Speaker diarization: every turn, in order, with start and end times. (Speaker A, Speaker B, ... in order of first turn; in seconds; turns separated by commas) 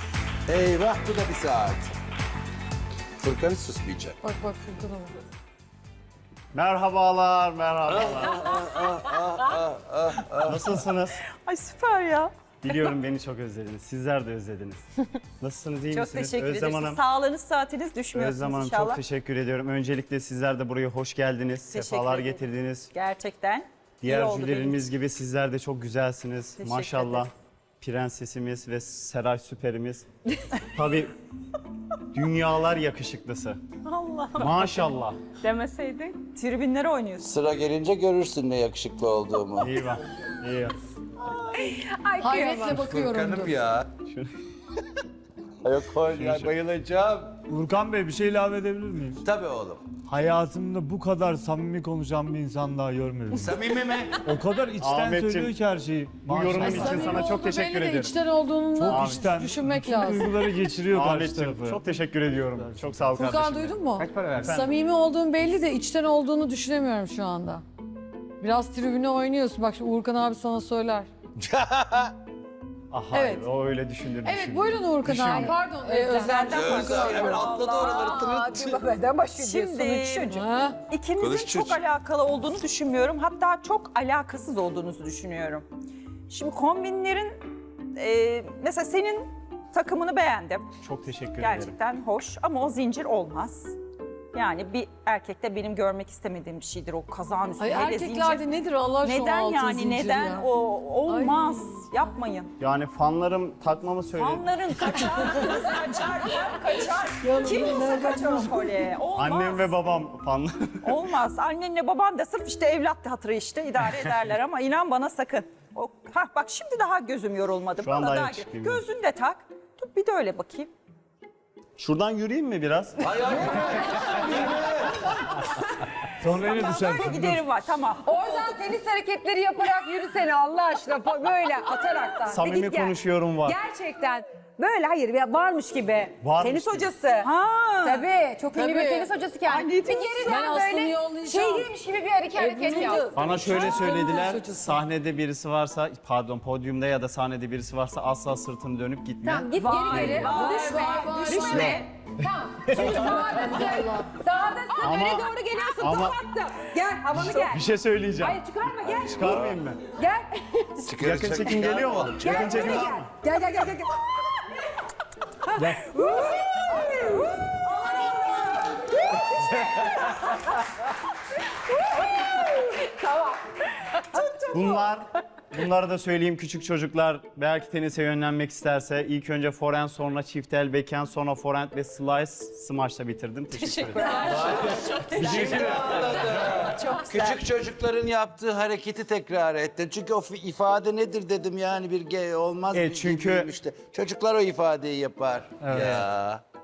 Speaker A: 0.5-1.9, Speaker A: 3.2-4.2, Speaker B: 4.2-5.1, Speaker C: 6.5-8.5, Speaker A: 8.0-10.6, Speaker C: 10.4-11.2, Speaker D: 11.4-12.3, Speaker C: 12.6-14.9, Speaker C: 15.4-17.0, Speaker D: 15.9-19.0, Speaker C: 18.1-22.9, Speaker D: 21.7-24.9, Speaker C: 24.0-30.1, Speaker D: 26.6-27.3, Speaker C: 30.6-31.1, Speaker C: 32.1-33.6, Speaker D: 33.8-34.6, Speaker C: 34.3-35.2, Speaker D: 35.4-37.3, Speaker A: 37.2-39.8, Speaker C: 39.6-40.8, Speaker E: 41.5-42.9, Speaker B: 42.2-43.5, Speaker A: 42.8-43.9, Speaker A: 45.6-47.4, Speaker F: 47.5-49.2, Speaker A: 49.2-50.0, Speaker F: 50.0-53.6, Speaker A: 53.3-54.3, Speaker F: 54.2-57.4, Speaker C: 54.8-55.6, Speaker C: 56.2-58.1, Speaker B: 56.6-60.3, Speaker F: 58.8-61.8, Speaker C: 58.8-59.4, Speaker C: 60.9-63.8, Speaker F: 62.6-63.1, Speaker B: 63.1-67.6, Speaker A: 64.0-64.3, Speaker C: 64.4-64.7, Speaker B: 68.4-71.1, Speaker A: 71.4-72.1, Speaker C: 72.9-75.6, Speaker B: 73.1-73.4, Speaker B: 74.2-77.4, Speaker E: 75.2-80.3, Speaker D: 76.2-78.1, Speaker A: 76.4-78.8, Speaker D: 79.4-85.7, Speaker B: 80.3-80.8, Speaker A: 81.2-81.8, Speaker D: 86.3-87.4, Speaker D: 87.9-90.7, Speaker C: 90.8-91.8, Speaker D: 91.4-93.7, Speaker D: 94.3-98.4, Speaker B: 97.6-100.5, Speaker D: 99.0-102.5, Speaker B: 101.1-101.5, Speaker C: 102.6-104.5, Speaker D: 104.1-109.7, Speaker B: 107.2-108.6, Speaker C: 109.2-111.0, Speaker D: 110.8-120.7, Speaker C: 117.8-118.8, Speaker C: 121.8-123.5, Speaker A: 123.1-124.9, Speaker E: 124.0-124.3, Speaker F: 126.2-127.4, Speaker D: 126.3-128.5, Speaker E: 128.0-137.3, Speaker C: 132.3-133.6, Speaker C: 136.2-136.9, Speaker D: 137.2-138.0, Speaker E: 137.8-144.0, Speaker B: 138.5-139.1, Speaker D: 139.4-140.4, Speaker B: 140.3-141.7, Speaker B: 142.3-144.7, Speaker C: 143.1-150.4, Speaker E: 149.2-160.9, Speaker D: 149.6-151.9, Speaker B: 150.3-151.7, Speaker C: 152.7-153.1, Speaker B: 152.8-154.0, Speaker C: 154.8-155.3, Speaker C: 155.8-156.2, Speaker C: 157.1-158.4, Speaker C: 159.0-159.8, Speaker A: 160.8-163.0, Speaker C: 161.0-163.0, Speaker E: 162.2-164.6, Speaker F: 165.6-165.8, Speaker E: 165.6-170.4, Speaker E: 172.4-173.2, Speaker C: 174.5-184.4, Speaker D: 183.5-187.4, Speaker A: 184.3-196.4, Speaker C: 192.7-193.5, Speaker C: 195.7-196.0